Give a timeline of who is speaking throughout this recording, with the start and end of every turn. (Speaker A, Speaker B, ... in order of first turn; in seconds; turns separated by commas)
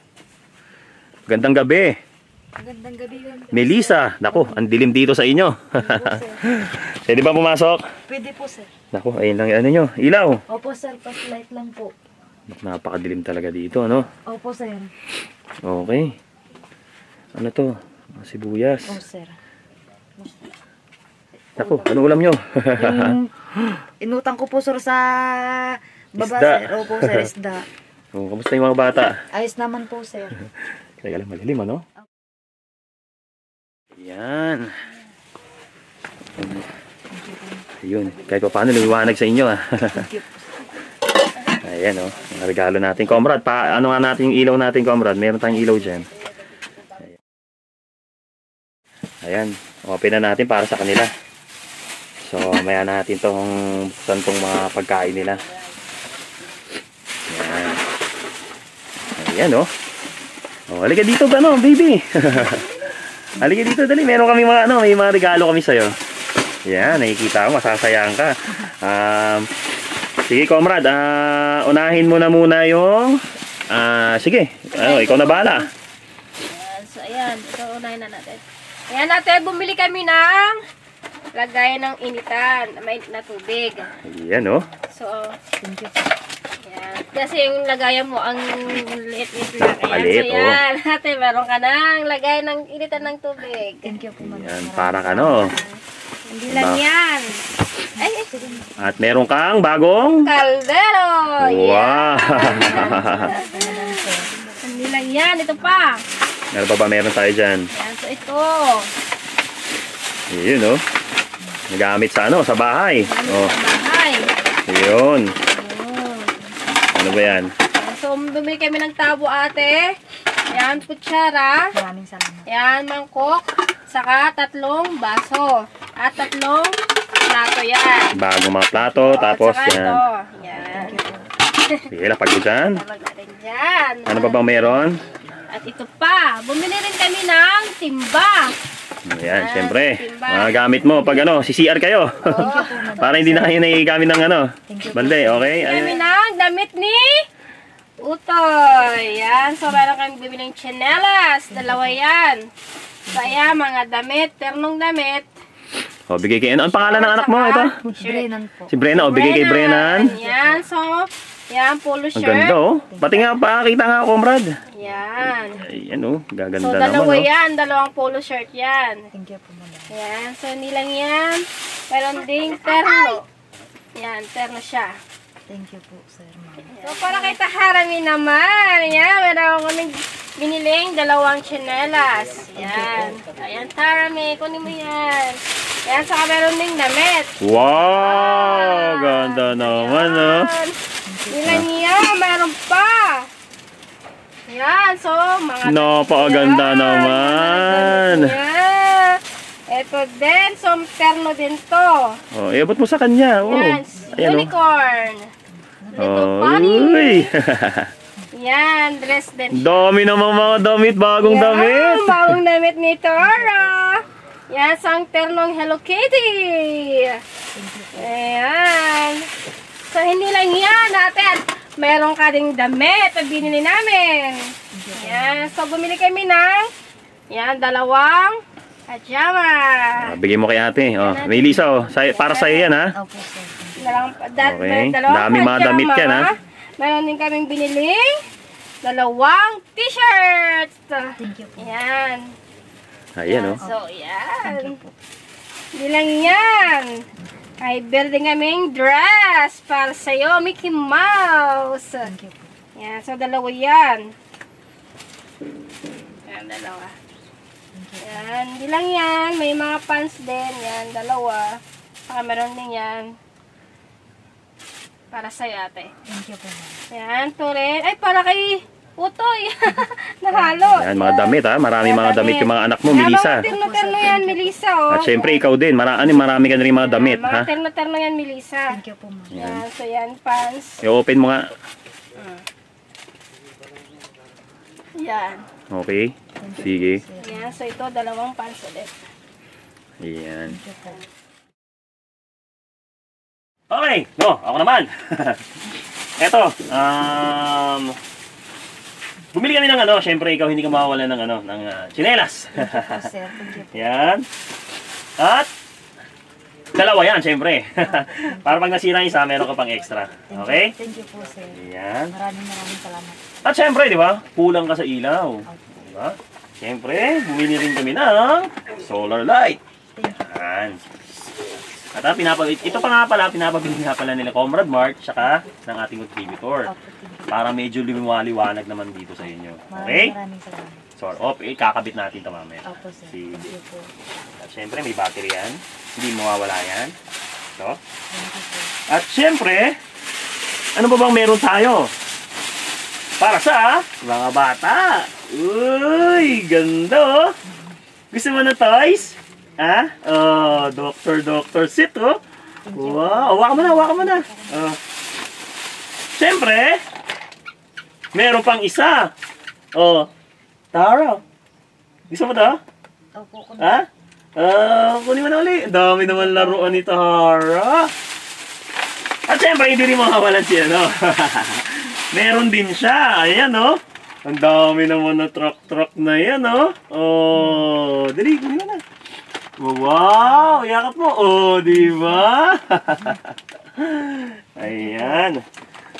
Speaker A: 1.3-2.0, Speaker B: 2.6-4.7, Speaker A: 3.5-7.8, Speaker B: 5.7-6.4, Speaker B: 8.1-8.7, Speaker A: 8.9-10.4, Speaker B: 10.5-11.9, Speaker A: 12.5-14.1, Speaker B: 14.3-14.9, Speaker A: 15.6-16.2, Speaker A: 17.3-19.0, Speaker B: 18.9-19.4, Speaker B: 21.4-22.0, Speaker A: 21.6-23.8, Speaker B: 22.7-23.3, Speaker B: 24.0-27.6, Speaker A: 26.2-27.3, Speaker A: 28.1-29.2, Speaker B: 29.3-30.4, Speaker A: 31.0-31.8, Speaker A: 33.9-34.9, Speaker B: 37.1-37.6, Speaker A: 37.8-40.1, Speaker B: 39.9-40.5, Speaker A: 41.5-46.1, Speaker A: 49.2-51.1, Speaker A: 52.2-55.4, Speaker A: 57.3-57.8, Speaker A: 59.2-59.7, Speaker A: 60.7-65.9, Speaker A: 66.6-69.5, Speaker A: 70.2-75.7, Speaker C: 74.7-75.7, Speaker C: 76.5-80.6, Speaker C: 81.3-83.9, Speaker A: 84.0-84.7, Speaker C: 84.9-85.3, Speaker B: 85.6-86.1, Speaker C: 86.6-93.9, Speaker A: 89.9-90.6, Speaker B: 93.8-95.7, Speaker A: 94.2-95.5, Speaker C: 95.2-95.6, Speaker C: 96.3-97.4, Speaker A: 96.5-96.8, Speaker C: 98.0-98.3, Speaker B: 98.0-99.0, Speaker A: 98.8-100.3, Speaker C: 100.2-104.0, Speaker A: 101.4-103.3, Speaker B: 102.5-104.8, Speaker C: 104.6-106.0, Speaker A: 106.5-107.7, Speaker C: 107.7-108.9, Speaker A: 110.3-110.8, Speaker A: 111.7-113.5, Speaker C: 113.0-114.3, Speaker A: 114.7-115.3, Speaker C: 115.5-116.3, Speaker A: 116.9-117.5, Speaker C: 117.7-120.0, Speaker C: 120.5-121.7, Speaker B: 121.7-122.5, Speaker C: 122.5-126.7, Speaker C: 127.3-128.2, Speaker A: 128.1-130.0, Speaker C: 128.9-131.0, Speaker B: 130.5-131.3, Speaker C: 131.6-131.9, Speaker A: 131.9-132.8, Speaker C: 132.6-134.5, Speaker A: 134.1-135.0, Speaker C: 135.5-138.5, Speaker A: 139.0-146.0, Speaker C: 139.3-141.2, Speaker C: 142.2-142.9, Speaker B: 142.3-143.6, Speaker B: 144.7-145.9, Speaker C: 145.6-147.2, Speaker C: 148.0-152.5, Speaker B: 151.5-152.0, Speaker B: 153.1-153.5, Speaker C: 153.1-155.3, Speaker A: 156.1-157.8, Speaker C: 156.7-158.3, Speaker B: 157.9-158.9, Speaker A: 158.7-160.1, Speaker C: 158.9-162.6, Speaker B: 159.8-160.7, Speaker A: 162.1-164.6, Speaker B: 162.9-163.3, Speaker C: 164.7-165.6, Speaker A: 165.6-167.3, Speaker C: 166.6-169.1, Speaker B: 169.1-169.9, Speaker C: 169.9-173.2, Speaker C: 173.9-174.9, Speaker B: 175.5-177.3, Speaker C: 176.7-190.8, Speaker B: 182.5-183.2, Speaker A: 187.4-190.5, Speaker B: 191.0-191.6, Speaker C: 191.3-193.3, Speaker C: 194.5-202.2, Speaker A: 195.6-198.4, Speaker A: 202.3-204.5, Speaker C: 203.4-205.3, Speaker B: 204.0-204.4, Speaker B: 205.8-206.2, Speaker C: 205.9-207.3, Speaker A: 206.0-207.9, Speaker C: 208.3-209.9, Speaker A: 209.5-212.4, Speaker C: 211.2-217.2, Speaker B: 213.2-213.7, Speaker B: 217.5-218.2, Speaker C: 217.9-219.3, Speaker C: 219.9-226.7, Speaker B: 224.7-225.5, Speaker C: 227.3-230.2, Speaker A: 230.0-232.9, Speaker C: 231.0-232.7, Speaker B: 232.9-233.9, Speaker C: 233.8-238.2, Speaker A: 234.4-236.3, Speaker C: 238.8-242.3, Speaker B: 241.2-241.7, Speaker A: 243.2-243.6, Speaker C: 243.2-244.8, Speaker B: 244.4-244.9, Speaker C: 245.7-247.1, Speaker C: 247.6-252.1, Speaker B: 252.0-252.5, Speaker C: 252.8-254.1, Speaker C: 256.2-256.9, Speaker B: 257.7-258.4, Speaker C: 258.0-263.1, Speaker C: 265.1-265.9, Speaker B: 266.0-266.8, Speaker C: 266.9-275.4, Speaker B: 269.8-270.8, Speaker A: 270.7-273.4, Speaker B: 273.4-274.6, Speaker A: 274.9-277.5, Speaker C: 276.7-278.8, Speaker B: 278.7-279.4, Speaker A: 279.3-279.6, Speaker C: 279.4-280.8, Speaker A: 280.8-281.5, Speaker C: 282.1-282.4, Speaker C: 285.0-285.4, Speaker A: 285.7-287.0, Speaker B: 286.4-287.6, Speaker C: 287.2-288.9, Speaker A: 290.0-290.6, Speaker B: 290.5-291.0, Speaker A: 293.7-295.5, Speaker A: 296.2-298.0, Speaker A: 299.3-303.1, Speaker B: 302.5-303.9, Speaker A: 303.7-304.2, Speaker A: 305.2-305.5, Speaker A: 306.7-310.7, Speaker B: 307.8-308.6, Speaker B: 310.3-313.2, Speaker A: 311.5-312.1, Speaker A: 313.4-320.9, Speaker B: 315.4-315.8, Speaker B: 319.9-320.2, Speaker A: 321.9-326.7, Speaker B: 326.6-327.4, Speaker A: 327.3-330.1, Speaker B: 329.7-330.9, Speaker A: 331.0-333.5, Speaker B: 332.6-333.9, Speaker A: 334.4-336.9, Speaker B: 338.1-338.7, Speaker A: 338.9-339.8, Speaker A: 340.8-341.9, Speaker A: 343.2-347.3, Speaker B: 347.5-347.8, Speaker A: 348.1-352.2, Speaker B: 352.6-354.7, Speaker A: 352.7-354.8, Speaker A: 356.1-356.8, Speaker A: 358.1-359.1, Speaker A: 359.7-360.1, Speaker A: 360.7-361.2, Speaker A: 362.1-362.6, Speaker B: 363.1-363.9, Speaker A: 363.6-367.9, Speaker B: 365.8-366.8, Speaker A: 369.3-378.8, Speaker A: 379.6-385.4, Speaker B: 384.6-385.3